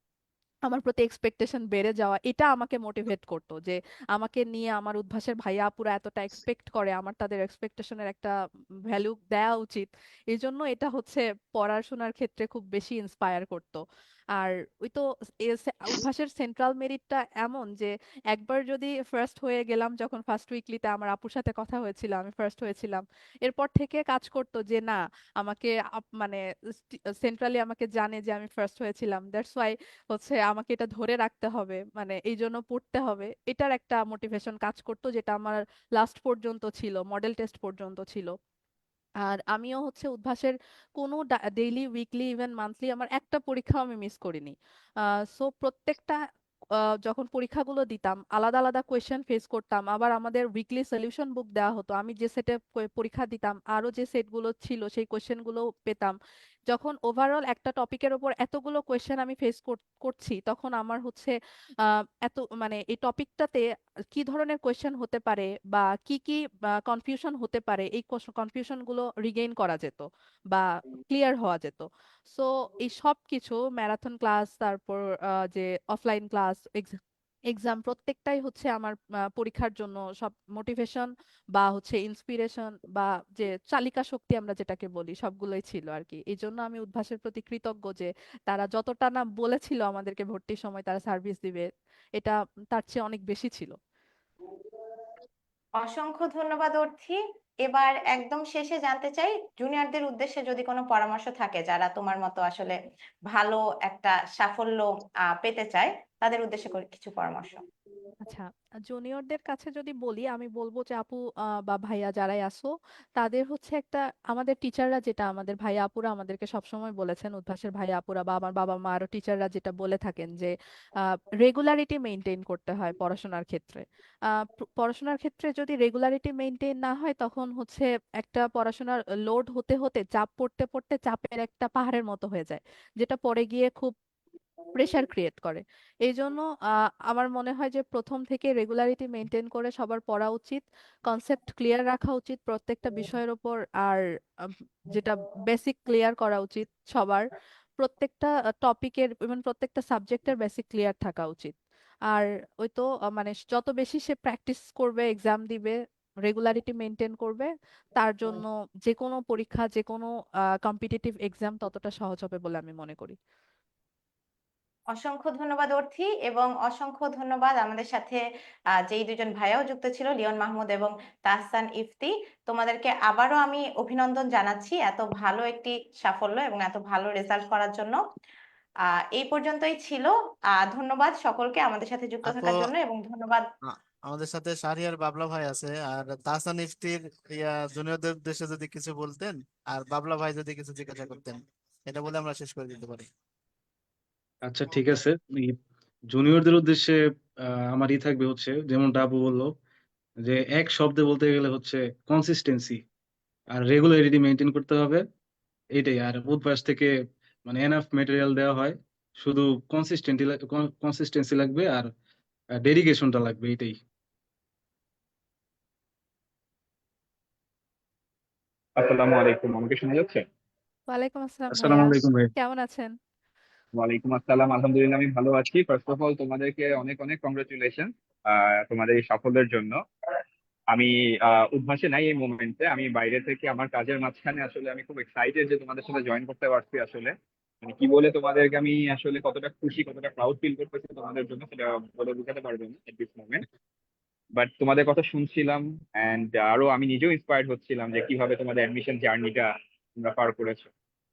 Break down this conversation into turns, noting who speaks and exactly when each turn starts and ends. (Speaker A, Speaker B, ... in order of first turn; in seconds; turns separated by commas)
Speaker A: 0.7-8.3, Speaker A: 8.9-13.8, Speaker A: 14.4-38.3, Speaker A: 39.2-44.5, Speaker A: 45.3-46.2, Speaker A: 47.0-56.1, Speaker A: 56.7-61.3, Speaker A: 61.9-77.0, Speaker A: 77.5-93.8, Speaker B: 95.8-102.8, Speaker B: 103.3-107.6, Speaker A: 108.2-120.5, Speaker A: 121.4-133.9, Speaker A: 134.7-136.4, Speaker A: 137.1-147.2, Speaker A: 147.8-151.5, Speaker A: 152.1-160.1, Speaker A: 160.6-163.2, Speaker B: 164.9-168.2, Speaker B: 168.8-178.0, Speaker B: 178.9-183.5, Speaker C: 182.2-182.5, Speaker C: 183.7-193.1, Speaker D: 194.4-195.6, Speaker D: 196.1-199.5, Speaker D: 200.2-202.8, Speaker D: 203.5-205.0, Speaker D: 205.7-206.9, Speaker D: 207.4-211.9, Speaker D: 212.6-213.8, Speaker E: 218.8-220.2, Speaker A: 220.9-222.9, Speaker D: 221.5-222.3, Speaker E: 223.8-229.8, Speaker E: 230.7-243.4, Speaker E: 244.3-250.7